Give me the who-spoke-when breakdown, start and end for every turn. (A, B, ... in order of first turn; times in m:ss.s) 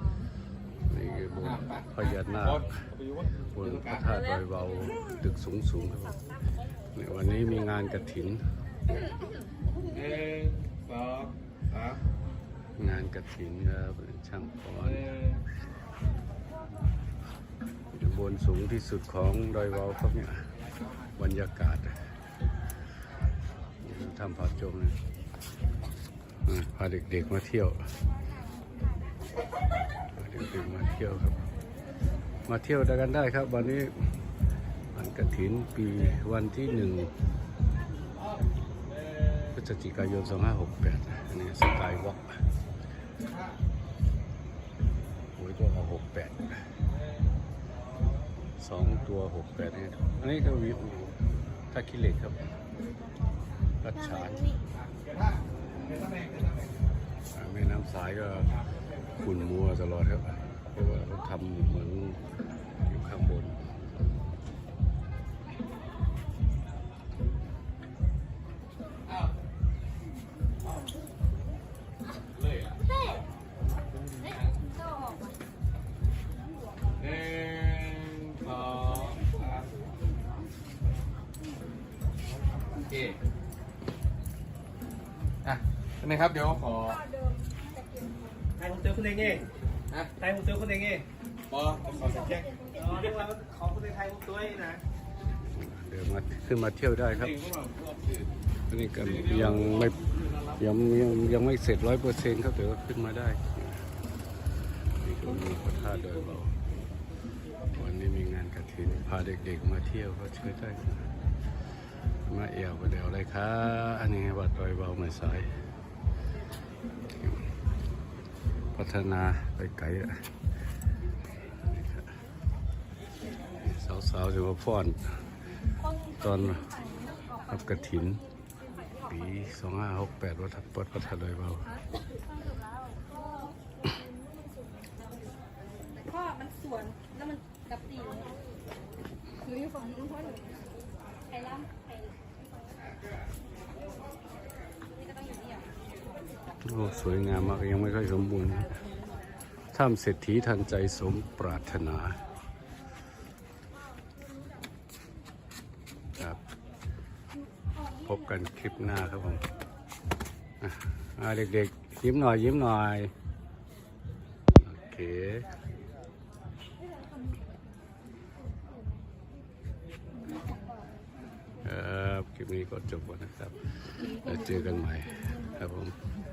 0:00.8-0:02.9 A
0:03.5-0:08.6 A
0:09.8-0:12.0 B
0:12.8-0:15.2 A
0:17.9-0:20.5 A
0:21.1-0:22.0 A
0:23.8-0:25.0 A
0:26.4-0:27.9 A
0:30.1-0:31.4 A
0:32.4-0:34.2 A
0:34.9-0:37.2 A
0:39.4-0:42.4 A
0:45.4-0:46.6 A
0:48.6-0:52.4 A
0:53.8-0:54.6 A
0:57.3-0:58.6 A
0:59.1-1:02.2 A
1:02.8-1:03.8 A
1:17.0-1:19.3 B
1:22.8-1:23.2 B
1:25.5-1:27.0 B
1:28.6-1:29.4 C
1:29.9-1:30.2 B
1:30.2-1:31.0 C
1:31.5-1:32.5 B
1:32.4-1:32.8 D
1:32.8-1:34.8 C
1:35.4-1:37.5 A
1:37.5-1:37.9 B
1:38.7-1:43.9 A
1:45.0-1:46.6 A
1:47.7-1:51.1 A
1:52.2-1:55.6 A
1:58.7-2:00.3 A
2:01.6-2:02.1 A
2:03.6-2:05.3 A
2:06.0-2:08.3 A
2:09.0-2:11.8 A
2:16.0-2:18.2 D
2:19.5-2:20.2 D
2:25.0-2:25.6 D
2:26.6-2:28.8 A
2:29.7-2:32.2 A
2:36.2-2:36.4 A
2:37.8-2:39.4 A
2:40.6-2:43.1 A
2:44.6-2:45.5 A
2:51.6-2:56.0 A